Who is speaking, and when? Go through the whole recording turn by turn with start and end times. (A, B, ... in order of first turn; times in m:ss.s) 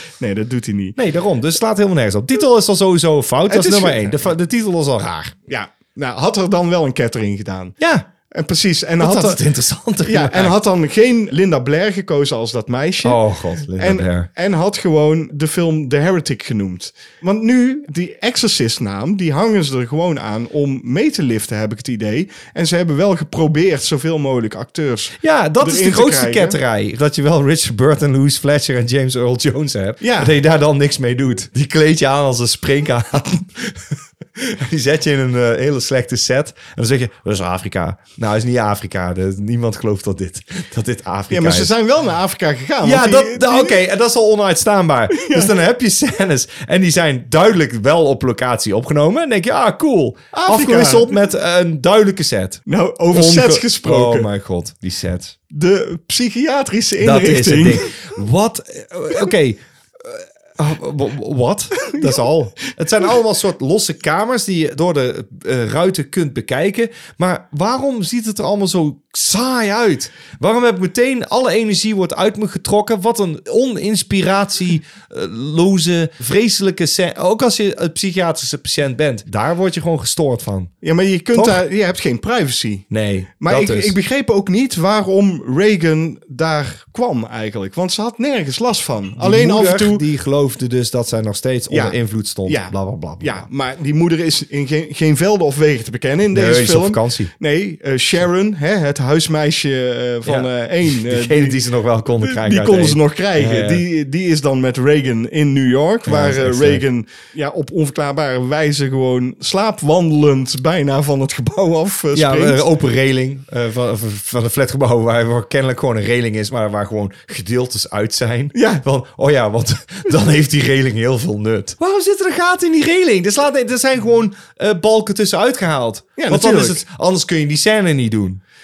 0:00.2-0:01.0 A
0:01.0-0:05.4 B
0:03.5-0:04.3 A
0:05.5-0:07.8 A
0:07.8-0:08.1 B
0:08.3-0:09.4 A
0:09.0-0:10.6 B
0:10.0-0:26.6 A
0:13.0-0:14.3 B
0:25.2-0:41.7 B
0:30.0-0:30.3 A
0:41.3-0:43.8 A
0:42.8-0:55.4 B
0:45.1-0:45.5 A
0:50.3-0:51.1 A
0:52.7-0:54.3 A
0:55.5-0:57.9 A
0:57.0-1:20.7 B
1:02.0-1:02.2 A
1:20.8-1:30.0 A
1:21.3-1:21.6 B
1:22.9-1:24.0 B
1:29.2-1:33.5 B
1:31.7-1:41.6 A
1:36.3-1:37.3 B
1:40.2-1:43.8 B
1:42.2-1:52.6 A
1:46.1-1:46.8 B
1:52.1-2:08.4 B
1:58.5-1:58.8 A
2:06.2-2:06.8 A